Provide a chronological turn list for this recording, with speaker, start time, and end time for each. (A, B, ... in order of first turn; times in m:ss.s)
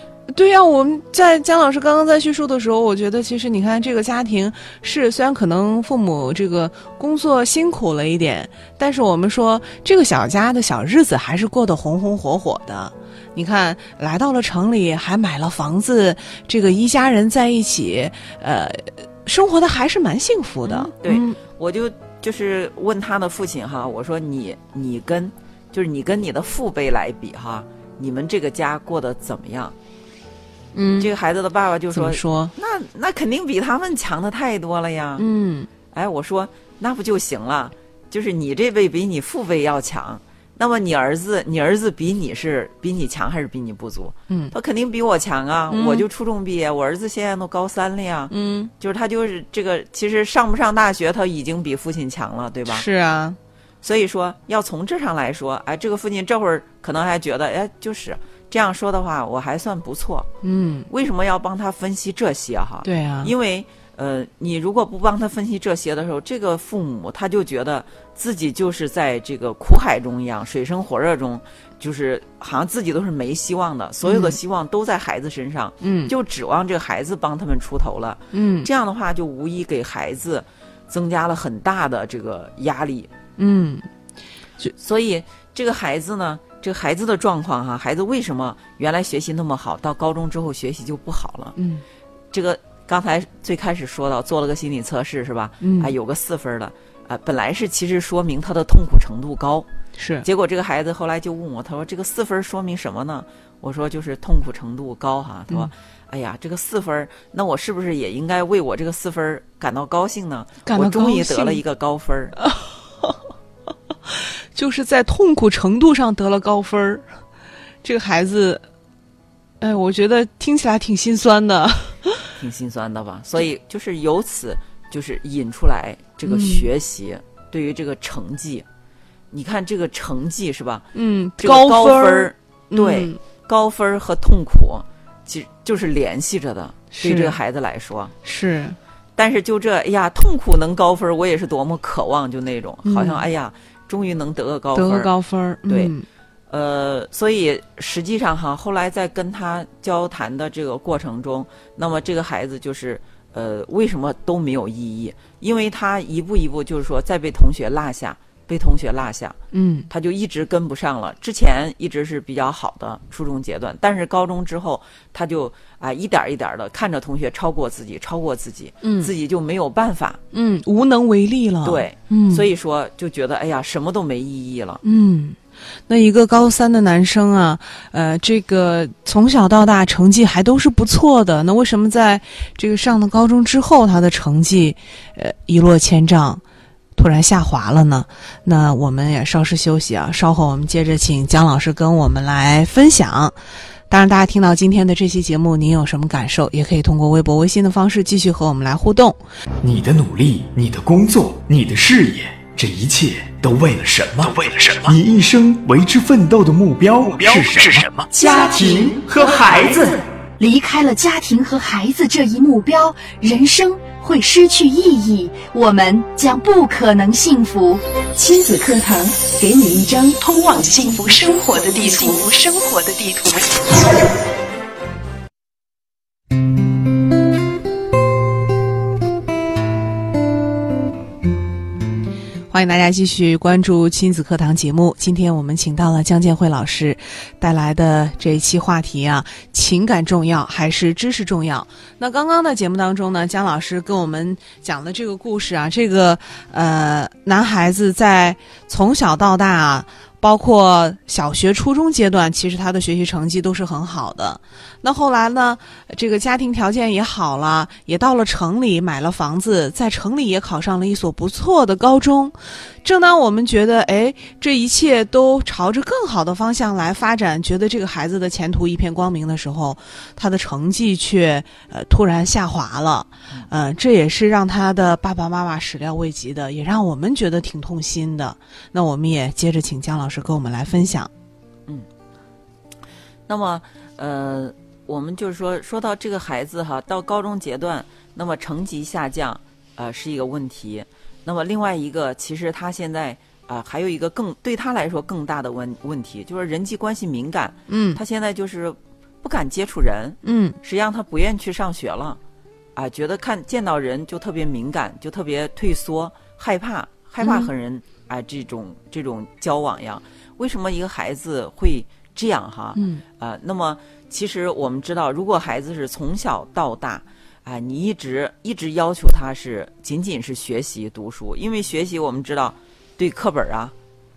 0:00.3-0:21.4 A
0:20.6-0:29.8 B
0:30.7-0:31.1 A
0:31.0-0:35.2 B
0:31.9-0:32.5 A
0:35.2-0:35.7 A
0:35.9-0:52.9 B
0:45.7-0:46.0 A
0:48.3-0:48.7 A
0:52.7-0:53.4 A
0:53.8-1:00.3 B
1:00.4-1:00.9 A
1:00.9-1:23.1 B
1:02.8-1:03.3 A
1:14.0-1:14.4 A
1:15.8-1:16.1 A
1:18.3-1:18.7 A
1:23.4-1:23.9 A
1:24.8-1:31.6 B
1:31.6-1:31.8 A
1:32.3-1:39.7 B
1:35.6-1:35.9 A
1:40.0-1:40.3 A
1:40.2-1:52.4 B
1:50.7-1:51.6 A
1:52.4-1:53.2 A
1:54.1-1:57.1 A
1:57.8-1:58.6 A
1:59.6-2:02.3 A
2:02.4-2:08.7 B
2:06.3-2:06.7 A
2:09.3-2:10.9 B
2:10.9-2:13.2 A
2:11.4-2:18.1 B
2:16.9-2:17.4 A
2:18.2-2:18.8 A
2:19.2-2:25.1 B
2:22.8-2:23.2 A
2:24.7-2:26.0 A
2:25.7-2:25.9 B
2:26.5-2:39.4 B
2:39.5-2:39.9 A
2:39.9-2:50.2 B
2:48.8-2:49.1 A
2:50.3-2:52.5 A
2:51.6-2:54.8 B
2:54.8-3:06.4 A
3:07.0-3:13.4 A
3:13.9-3:19.2 A
3:19.6-3:29.9 C
3:28.1-3:29.8 D
3:30.4-3:43.8 D
3:52.5-4:41.1 A
4:43.3-5:02.2 B
4:57.7-4:58.0 A
5:00.2-5:00.6 A
5:02.8-5:23.7 B
5:07.2-5:07.5 A
5:12.8-5:13.0 A